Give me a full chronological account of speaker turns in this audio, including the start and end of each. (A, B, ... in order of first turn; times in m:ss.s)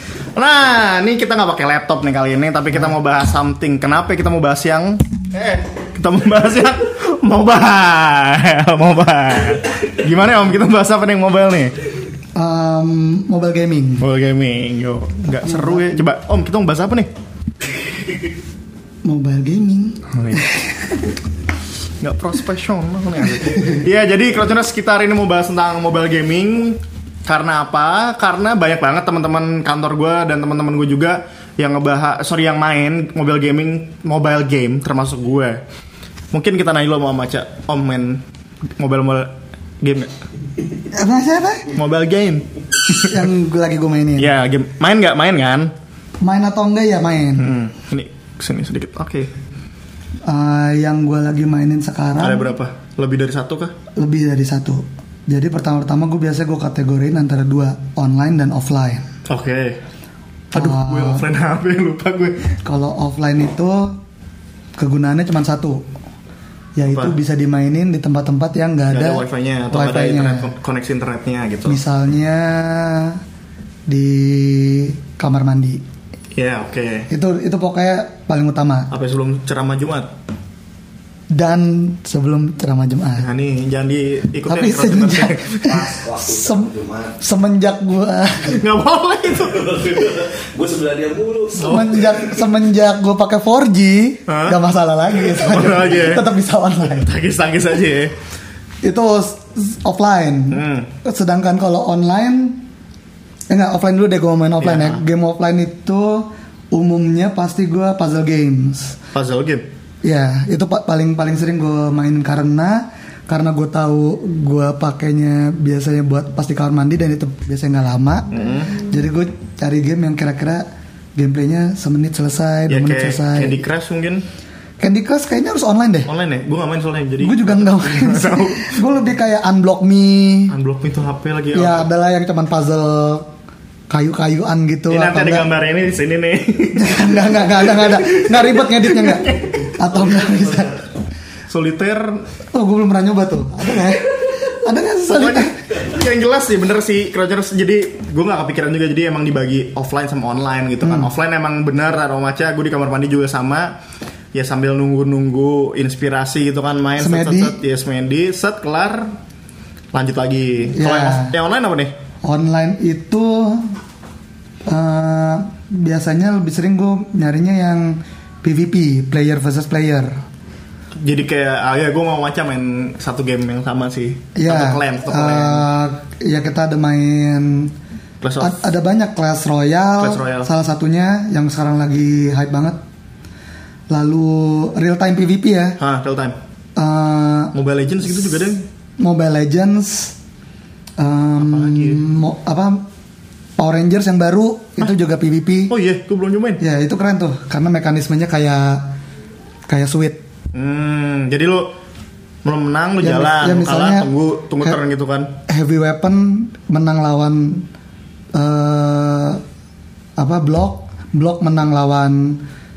0:00.4-0:11.7 A
0:12.4-0:14.1 B
0:14.0-0:17.1 A
0:15.4-0:16.1 B
0:19.0-0:21.2 B
0:20.1-0:20.5 A
0:22.0-0:35.6 A
0:23.4-0:23.7 B
0:36.3-0:38.2 A
0:38.8-0:40.1 A
0:40.9-0:41.7 B
0:41.7-0:43.2 A
0:43.0-0:44.3 B
0:44.2-0:45.7 A
0:46.2-0:47.5 B
0:47.4-0:49.3 A
0:50.3-0:52.6 B
0:52.2-0:53.7 A
0:54.0-0:59.1 B
0:59.3-0:59.8 A
1:00.5-1:01.2 B
1:00.5-1:02.6 A
1:02.6-1:04.0 B
1:04.8-1:05.8 B
1:06.8-1:10.5 B
1:06.9-1:07.2 A
1:08.9-1:11.8 A
1:11.7-1:13.2 B
1:13.9-1:15.8 B
1:16.3-1:17.1 A
1:17.1-1:18.9 B
1:18.9-1:20.1 A
1:21.3-1:23.3 B
1:23.2-1:25.9 A
1:24.5-1:28.6 B
1:25.8-1:27.2 C
1:28.5-1:30.2 A
1:29.6-1:31.8 C
1:31.5-1:37.1 B
1:31.6-1:32.2 A
1:34.3-1:34.6 A
1:35.2-1:36.3 A
1:36.9-1:38.1 A
1:38.8-1:42.6 B
1:40.5-1:40.9 A
1:43.5-1:49.0 B
1:44.6-1:45.0 A
1:49.1-1:49.6 A
1:50.0-2:03.6 B
1:58.3-1:58.8 A
2:02.7-2:04.2 A
2:04.8-2:06.1 B
2:06.1-2:08.8 A
2:07.2-2:10.5 B
2:10.5-2:11.9 A
2:11.5-2:13.3 B
2:13.9-2:15.5 B
2:14.9-2:20.3 A
2:16.7-2:20.9 B
2:21.5-2:22.3 A
2:22.5-2:25.6 B
2:25.1-2:33.7 A
2:30.8-2:31.1 B
2:34.3-2:39.2 A
2:37.0-2:37.6 B
2:39.9-2:41.9 A
2:40.8-2:41.4 B
2:42.2-2:43.7 B
2:44.7-2:50.2 B
2:50.9-2:55.7 A
2:54.4-2:57.7 B
2:58.2-2:58.6 A
2:58.4-3:02.8 B
3:00.0-3:00.5 A
3:03.9-3:05.8 B
3:05.8-3:06.4 A
3:06.8-3:07.6 B
3:07.5-3:08.6 A
3:08.3-3:10.2 B
3:11.0-3:12.8 B
3:11.4-3:12.0 A
3:13.6-3:15.7 B
3:15.7-3:16.6 A
3:16.6-3:18.8 B
3:19.7-3:20.2 B
3:20.5-3:21.7 A
3:22.4-3:25.3 A
3:23.0-3:24.1 B
3:25.5-3:27.6 B
3:28.3-3:29.4 B
3:30.2-3:32.4 B